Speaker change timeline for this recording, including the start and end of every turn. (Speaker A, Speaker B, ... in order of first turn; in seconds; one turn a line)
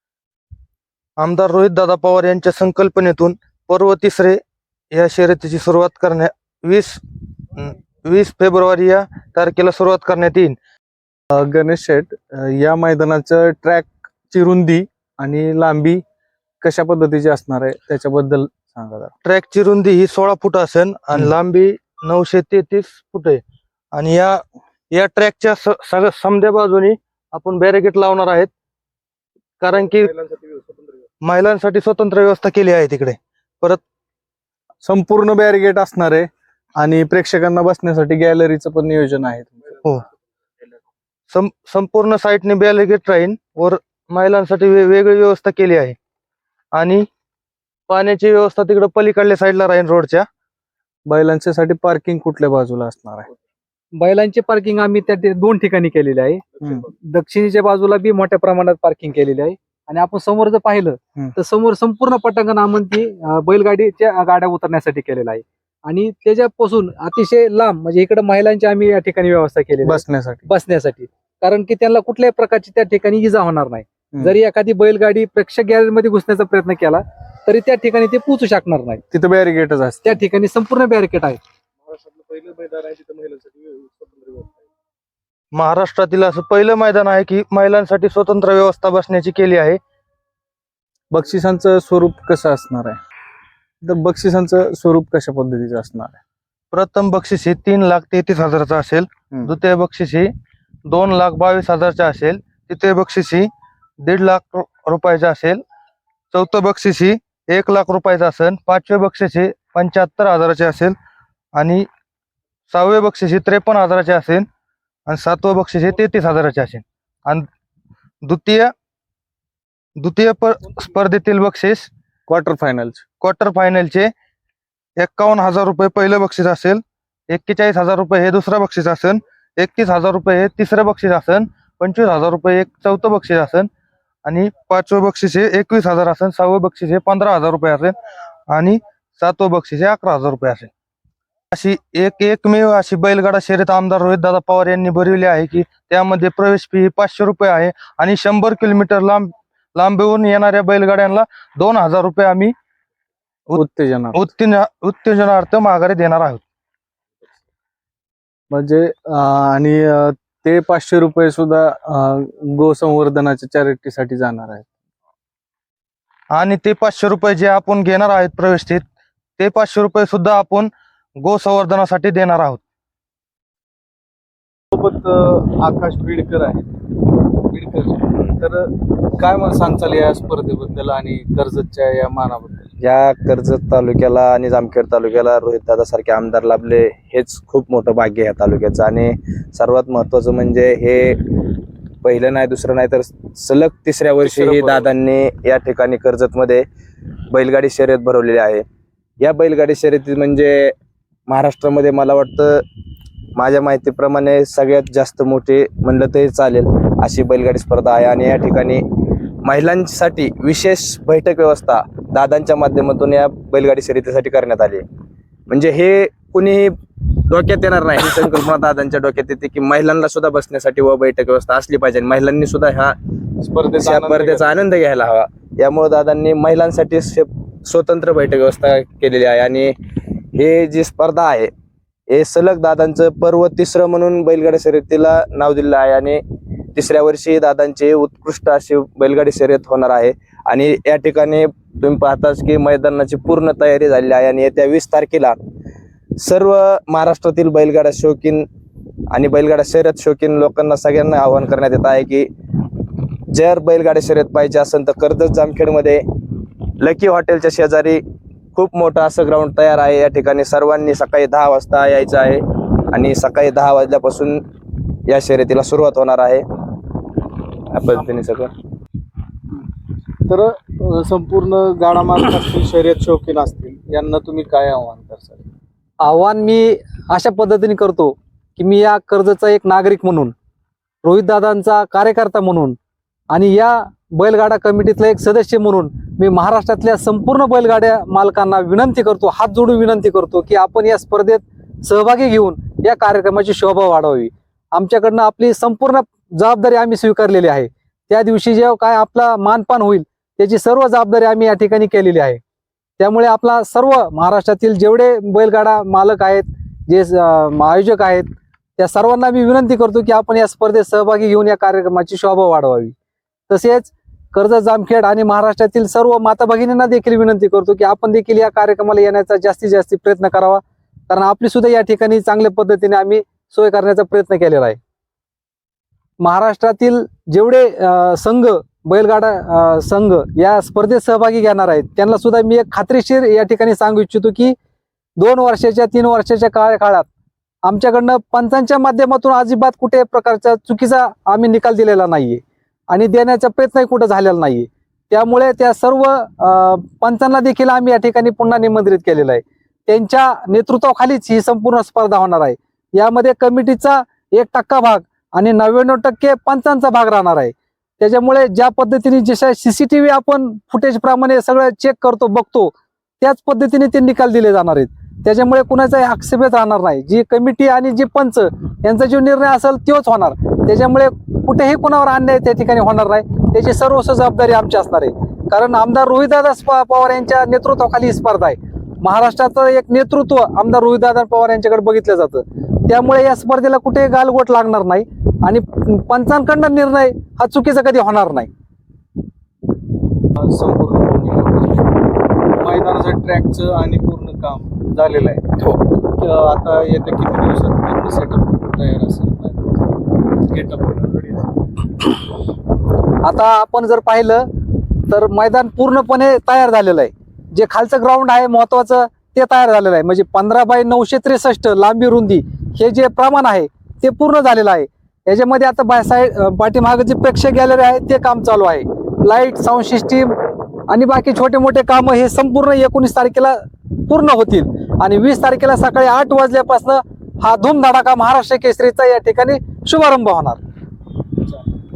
Speaker A: 1.2-4.4
Speaker A: 4.9-7.0
Speaker A: 7.5-10.6
Speaker B: 11.3-16.0
Speaker B: 16.6-19.1
Speaker A: 19.2-23.4
Speaker A: 23.9-24.4
Speaker A: 24.9-28.5
Speaker A: 29.6-30.1
Speaker A: 31.2-33.8
Speaker B: 34.8-39.8
Speaker A: 41.3-46.0
Speaker A: 46.7-47.0
Speaker A: 47.9-50.2
Speaker B: 51.1-53.3
Speaker C: 54.0-79.0
Speaker B: 69.8-70.5
Speaker B: 79.1-80.2
Speaker C: 80.0-81.4
Speaker B: 81.9-84.6
Speaker A: 85.5-89.8
Speaker B: 91.1-93.0
Speaker B: 93.8-96.2
Speaker A: 96.7-100.3
Speaker A: 100.9-103.5
Speaker A: 104.0-105.6
Speaker A: 106.3-111.0
Speaker A: 111.5-111.9
Speaker A: 112.7-114.5
Speaker A: 115.1-117.5
Speaker A: 118.2-118.7
Speaker A: 120.0-121.9
Speaker B: 122.3-123.0
Speaker A: 123.2-124.1
Speaker A: 125.0-133.7
Speaker A: 134.2-137.9
Speaker A: 138.5-140.7
Speaker A: 141.5-152.5
Speaker B: 153.5-154.2
Speaker A: 154.1-156.4
Speaker B: 158.5-164.7
Speaker A: 166.3-168.8
Speaker A: 169.4-170.7
Speaker A: 171.2-172.6
Speaker B: 174.7-176.7
Speaker B: 177.3-182.7
Speaker D: 182.8-191.4
Speaker D: 192.0-196.7
Speaker B: 194.2-194.9
Speaker D: 197.3-198.6
Speaker D: 199.2-200.7
Speaker D: 201.3-202.6
Speaker D: 203.3-208.8
Speaker D: 209.4-214.8
Speaker D: 215.5-216.7
Speaker D: 217.3-223.0
Speaker B: 223.4-224.6
Speaker D: 223.7-229.8
Speaker D: 230.3-231.5
Speaker D: 232.1-236.2
Speaker D: 236.7-245.3
Speaker D: 246.2-248.4
Speaker D: 249.1-252.3
Speaker D: 253.3-256.0
Speaker D: 256.8-258.0
Speaker D: 258.5-264.4
Speaker D: 265.1-266.4
Speaker D: 267.7-268.5
Speaker B: 270.2-275.5
Speaker C: 276.0-280.3
Speaker C: 281.0-282.8
Speaker C: 283.3-302.4
Speaker C: 303.0-312.9
Speaker C: 313.5-324.8
Speaker C: 326.2-334.6
Speaker C: 335.2-337.1
Speaker C: 337.6-388.5
Speaker B: 390.3-391.9
Speaker B: 392.5-401.5
Speaker C: 403.2-404.5
Speaker C: 405.1-430.6